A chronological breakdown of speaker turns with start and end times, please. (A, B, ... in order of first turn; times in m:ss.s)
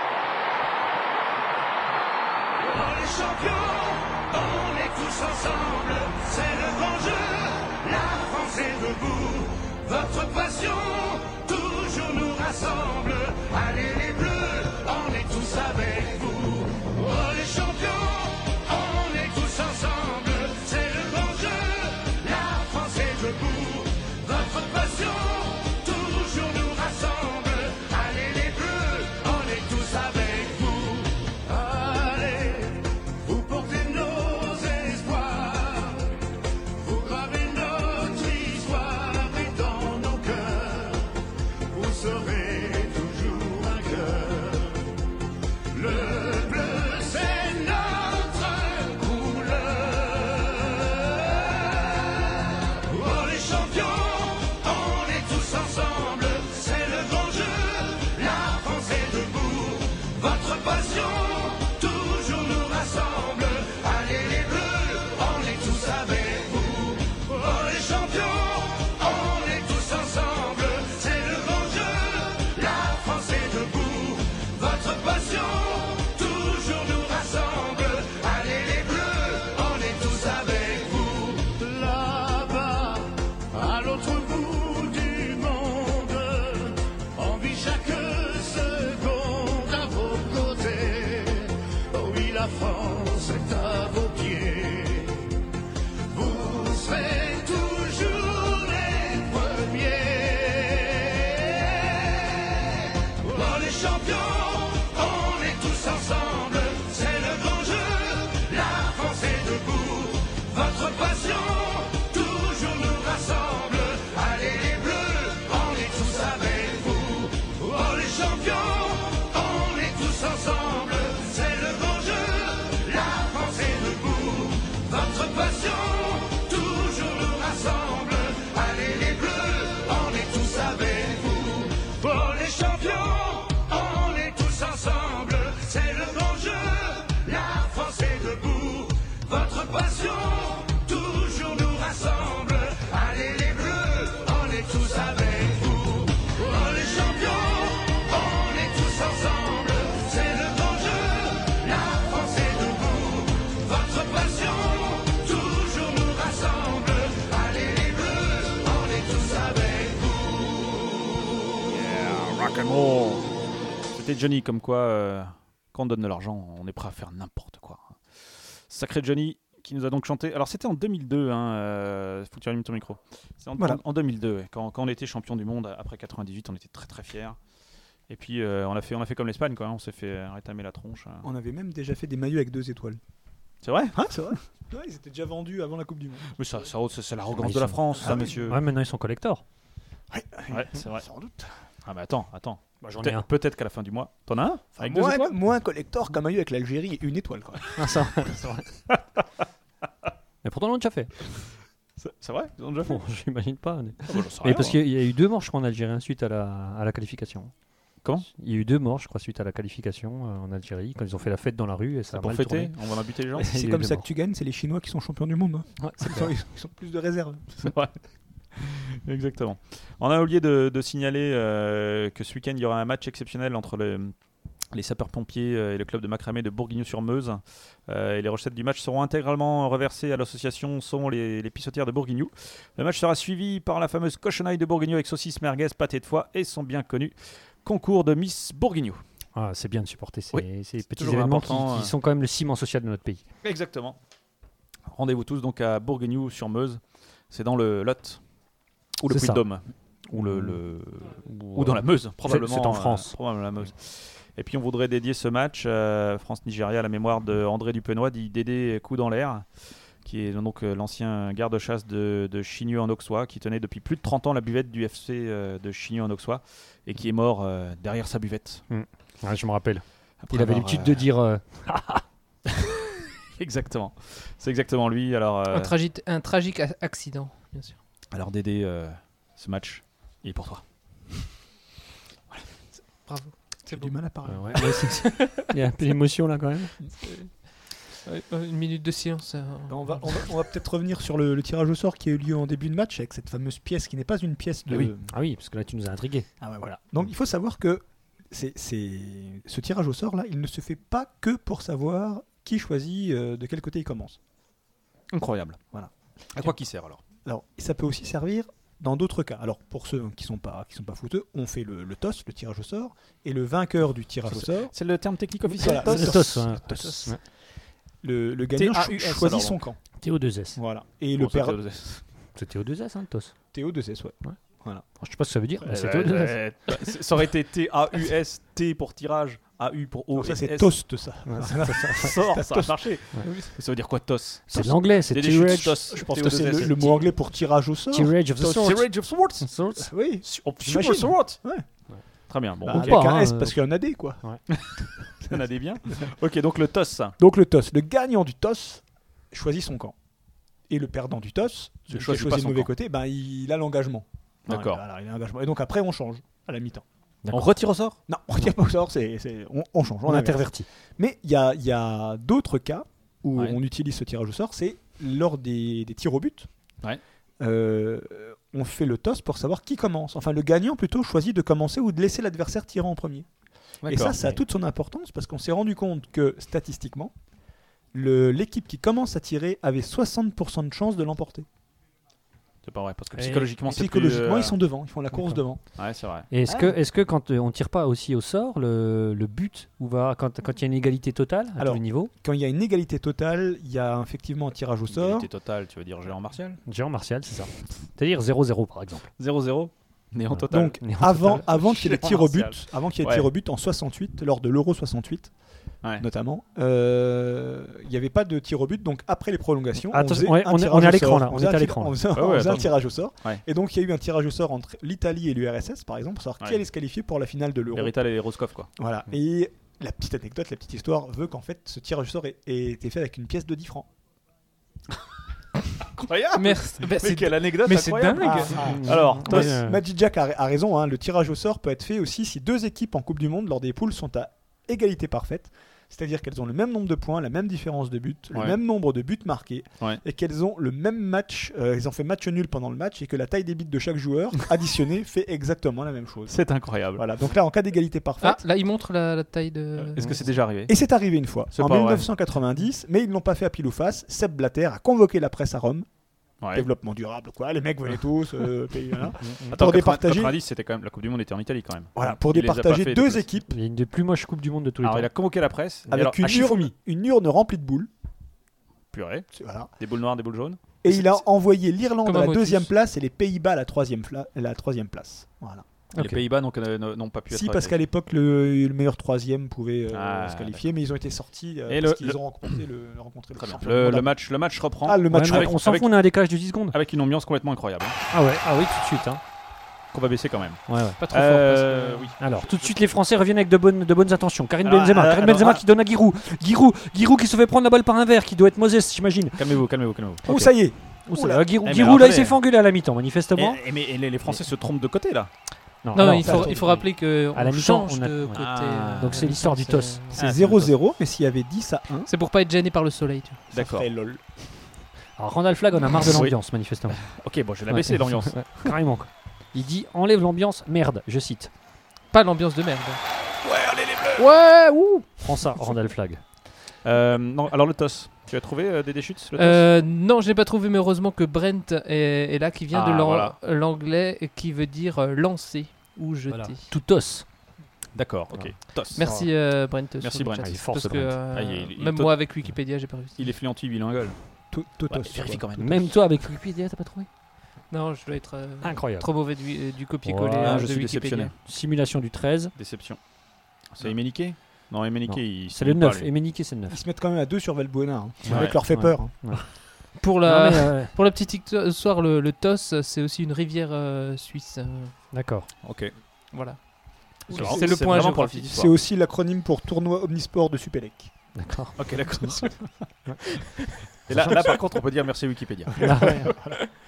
0:02.6-0:36.2 A
0:36.8-0:41.1 A
0:41.7-0:44.9 A
0:45.7-1:35.3 A
1:36.1-2:40.6 A
2:41.7-2:43.3 B
2:43.9-2:57.4 B
2:58.1-3:01.3 B
3:01.2-3:03.0 C
3:03.6-3:04.4 B
3:03.9-3:06.3 C
3:06.4-3:08.6 B
3:07.4-3:09.4 D
3:08.0-3:08.4 C
3:10.1-3:11.5 C
3:10.5-3:11.1 B
3:11.8-3:15.3 B
3:12.8-3:13.3 D
3:14.8-3:17.8 C
3:17.8-3:18.7 D
3:20.4-3:21.1 D
3:22.0-3:23.0 B
3:22.9-3:27.5 D
3:24.1-3:24.8 B
3:28.0-3:28.3 B
3:28.3-3:32.7 D
3:32.1-3:33.5 B
3:33.4-3:34.0 D
3:33.4-3:37.7 C
3:35.8-3:36.3 D
3:37.6-3:37.9 B
3:38.6-3:44.1 B
3:44.7-3:59.0 B
3:59.4-4:03.2 D
4:00.3-4:01.9 B
4:03.4-4:04.0 B
4:04.9-4:08.2 B
4:09.0-4:28.6 B
4:09.1-4:09.4 D
4:10.2-4:10.6 D
4:11.3-4:13.2 D
4:28.7-4:32.0 D
4:30.2-4:31.1 B
4:33.4-4:35.8 B
4:35.5-4:37.8 E
4:38.1-4:41.2 B
4:42.7-4:44.0 E
4:43.7-4:44.7 C
4:44.3-4:46.7 D
4:44.6-4:45.4 E
4:47.0-4:47.4 E
4:48.1-4:50.3 E
4:49.7-4:55.1 C
4:55.0-4:56.3 D
4:56.4-5:04.2 C
5:05.1-5:05.6 B
5:05.7-5:06.5 C
5:06.4-5:07.0 B
5:07.2-5:14.7 C
5:14.3-5:17.1 B
5:15.4-5:17.1 C
5:15.8-5:17.2 D
5:18.0-5:19.8 C
5:18.6-5:19.6 B
5:20.0-5:20.6 D
5:20.6-5:21.6 C
5:21.2-5:22.0 B
5:22.4-5:23.3 D
5:23.5-5:24.8 C
5:25.0-5:26.4 D
5:25.7-5:30.9 B
5:30.1-5:32.8 C
5:31.3-5:32.1 D
5:31.9-5:37.2 B
5:34.5-5:35.8 D
5:35.9-5:38.1 C
5:37.9-5:39.9 D
5:38.4-5:39.7 B
5:39.8-5:41.7 C
5:40.2-5:41.4 B
5:42.3-5:43.2 B
5:42.6-5:43.7 D
5:42.6-5:44.4 C
5:44.5-5:47.2 B
5:47.2-5:50.0 C
5:50.7-5:56.8 C
5:51.9-5:52.7 B
5:54.5-5:54.8 B
5:57.2-5:57.6 D
5:57.3-5:58.0 B
5:58.1-6:06.5 C
6:00.1-6:00.7 D
6:07.4-6:13.3 C
6:13.8-6:14.3 B
6:13.8-6:17.1 C
6:17.9-6:21.5 C
6:22.6-6:24.6 B
6:23.2-6:23.5 D
6:23.7-6:25.7 C
6:25.1-6:25.4 D
6:25.8-6:26.3 B
6:26.3-6:32.1 D
6:26.5-6:26.8 C
6:31.6-6:35.3 C
6:34.9-6:36.6 B
6:36.7-6:39.1 D
6:39.2-6:43.3 B
6:40.3-6:41.5 D
6:40.5-6:45.3 C
6:46.0-6:58.0 C
6:49.9-6:52.0 D
6:52.1-6:53.4 B
6:57.7-6:58.7 B
6:58.8-7:03.9 C
7:05.9-7:09.6 B
7:06.3-7:08.8 E
7:08.2-7:28.4 C
7:08.6-7:09.8 D
7:18.3-7:18.6 B
7:26.3-7:27.0 B
7:28.2-7:30.2 E
7:29.8-7:30.8 B
7:30.7-7:35.9 C
7:31.5-7:32.1 B
7:36.4-7:36.7 B
7:36.5-7:40.4 C
7:39.2-7:39.5 D
7:39.5-7:43.2 B
7:42.0-7:43.5 C
7:43.5-7:45.1 D
7:44.8-7:46.7 B
7:45.9-7:47.9 C
7:48.9-7:51.2 B
7:49.3-7:49.7 C
7:50.8-7:55.6 C
7:52.0-7:52.7 E
7:55.9-7:56.2 D
7:56.0-7:57.8 B
7:57.3-8:04.2 C
7:59.9-8:00.6 B
8:01.7-8:02.6 B
8:03.4-8:06.0 B
8:04.8-8:05.6 C
8:05.1-8:06.8 D
8:06.7-8:08.0 B
8:08.1-8:09.2 D
8:09.9-8:12.7 B
8:10.7-8:11.0 D
8:11.0-8:12.1 E
8:12.2-8:19.4 D
8:14.6-8:15.6 B
8:19.4-8:20.5 B
8:20.2-8:21.5 C
8:21.1-8:23.6 D
8:21.6-8:22.4 B
8:23.4-8:25.3 B
8:25.8-8:30.0 D
8:25.9-8:30.2 E
8:26.1-8:26.7 C
8:28.3-8:29.4 B
8:30.2-8:30.8 B
8:30.2-8:32.1 C
8:32.1-8:33.5 E
8:33.5-8:33.9 B
8:33.5-8:34.3 C
8:35.2-8:37.2 D
8:36.1-8:36.4 B
8:36.9-8:38.8 B
8:37.7-8:41.5 D
8:42.1-8:43.0 E
8:43.4-8:44.3 B
8:44.2-8:45.2 E
8:45.2-8:46.2 D
8:46.8-8:49.7 B
8:49.4-8:56.7 E
8:52.7-8:53.4 B
8:56.3-8:57.3 D
8:57.9-8:59.1 B
8:58.3-8:59.3 D
8:59.0-9:03.3 E
9:00.0-9:00.7 B
9:00.4-9:01.2 D
9:01.3-9:02.5 B
9:03.2-9:04.2 B
9:04.5-9:05.4 C
9:04.9-9:06.1 B
9:05.6-9:07.1 D
9:07.7-9:11.3 E
9:08.6-9:09.1 D
9:10.0-9:10.7 D
9:10.4-9:11.3 B
9:11.4-9:12.5 D
9:12.6-9:13.0 B
9:13.6-9:16.1 B
9:15.0-9:16.8 D
9:16.7-9:19.3 C
9:18.2-9:20.9 D
9:18.3-9:18.6 B
9:20.0-9:25.1 E
9:25.1-9:25.5 D
9:25.6-9:26.0 B
9:26.3-9:28.5 E
9:27.3-9:28.7 B
9:27.4-9:27.7 C
9:28.5-9:31.1 C
9:31.4-9:31.8 D
9:31.8-9:32.9 B
9:34.1-9:36.4 B
9:35.8-9:36.6 C
9:35.8-9:36.3 D